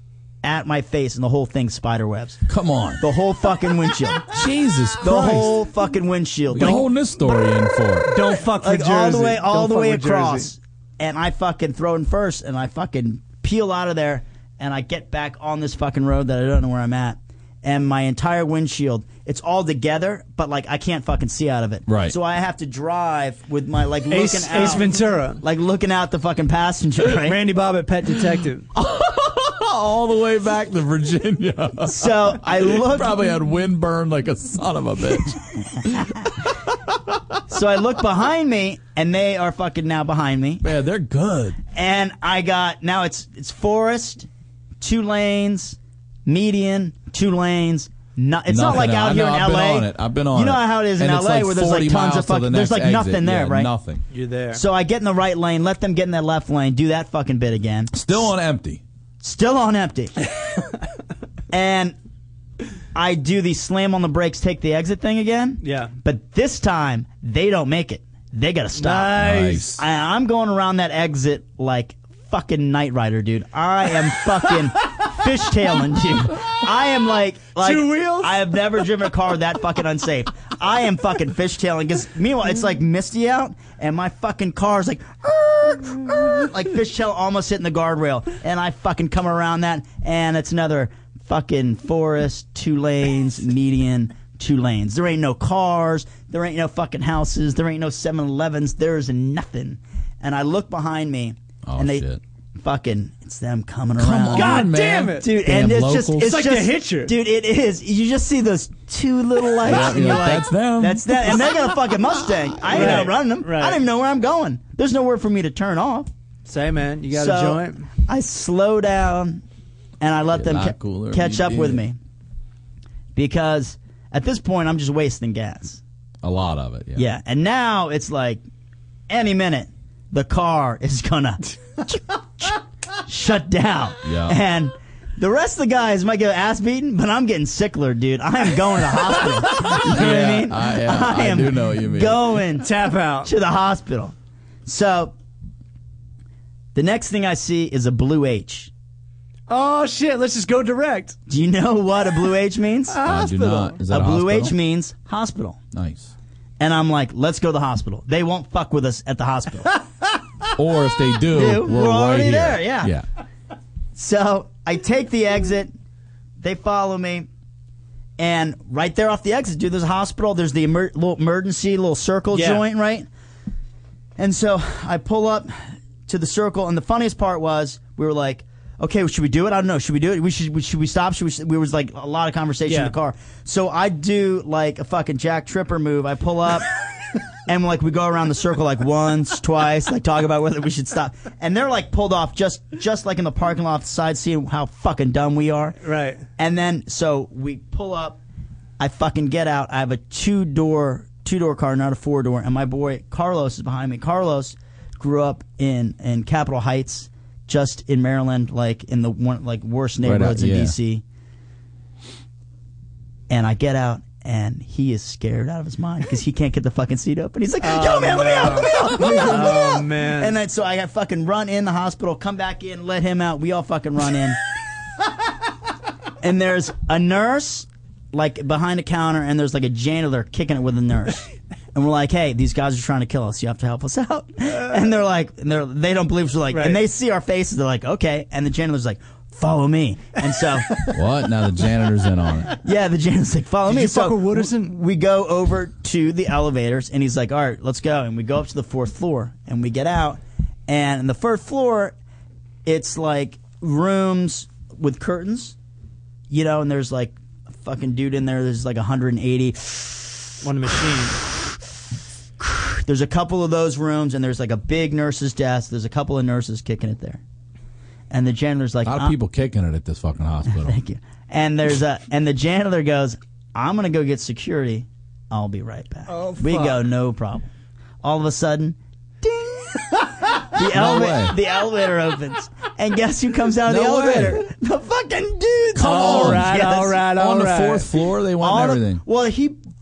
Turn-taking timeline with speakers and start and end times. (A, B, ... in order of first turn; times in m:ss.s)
0:00.4-0:02.4 A
0:02.5-0:03.0 B
0:03.0-0:04.3 A
0:04.3-0:05.5 B
0:05.0-0:06.9 A
0:06.5-0:08.1 B
0:08.1-0:10.5 C
0:08.5-0:27.4 A
0:21.9-0:22.2 B
0:24.1-0:25.4 C
0:27.1-0:28.6 C
0:28.7-0:36.5 B
0:31.9-0:33.2 A
0:37.5-0:40.7 A
0:40.6-0:41.6 B
0:41.7-0:44.3 A
0:44.8-0:53.7 A
0:48.5-0:54.0 B
0:54.1-0:54.6 C
0:54.5-0:58.1 A
0:57.9-0:58.8 B
0:59.2-1:00.3 A
1:01.5-1:02.0 A
1:02.9-1:42.0 A
1:05.6-1:05.9 C
1:08.8-1:09.7 C
1:09.2-1:09.8 B
1:17.6-1:18.4 C
1:41.6-1:42.2 B
1:42.6-1:56.1 A
1:44.0-1:46.4 B
1:44.3-1:45.3 C
1:46.2-1:47.1 C
1:49.6-1:51.5 B
1:52.7-1:53.8 C
1:56.4-1:57.9 C
1:57.1-1:59.4 A
2:00.0-2:02.0 A
2:00.3-2:01.8 B
2:03.1-2:05.8 A
2:06.2-2:07.0 B
2:06.9-2:08.4 A
2:09.1-2:25.1 A
2:14.0-2:14.4 B
2:19.6-2:22.4 B
2:22.6-2:23.3 C
2:26.7-2:28.7 A
2:29.5-2:31.2 C
2:31.3-2:35.6 A
2:33.0-2:34.5 B
2:33.0-2:33.7 C
2:35.7-2:36.1 B
2:36.6-2:39.8 A
2:40.5-2:43.0 B
2:41.3-2:42.9 A
2:43.9-2:45.7 A
2:46.4-2:47.3 A
2:48.2-2:53.1 A
2:52.3-2:52.6 C
2:54.2-3:06.7 A
3:02.7-3:02.9 C
3:07.5-3:15.8 A
3:15.8-3:16.2 C
3:16.4-3:18.2 A
3:18.8-3:31.0 A
3:30.0-3:30.7 B
3:33.3-3:44.4 A
3:37.6-3:40.4 C
3:46.2-4:00.8 A
3:56.5-3:56.8 C
4:00.9-4:02.6 B
4:02.6-4:11.9 A
4:03.6-4:04.8 C
4:12.6-4:15.6 A
4:16.3-4:20.4 A
4:20.4-4:21.2 C
4:21.3-4:21.5 A
4:22.4-4:27.2 A
4:28.1-4:29.1 A
4:28.8-4:30.8 B
4:30.5-4:37.5 A
4:36.1-4:36.8 C
4:38.0-4:47.1 A
4:40.7-4:41.3 B
4:43.6-4:44.4 B
4:45.8-4:46.6 B
4:45.8-4:47.8 C
4:47.1-4:49.0 B
4:48.4-4:49.6 A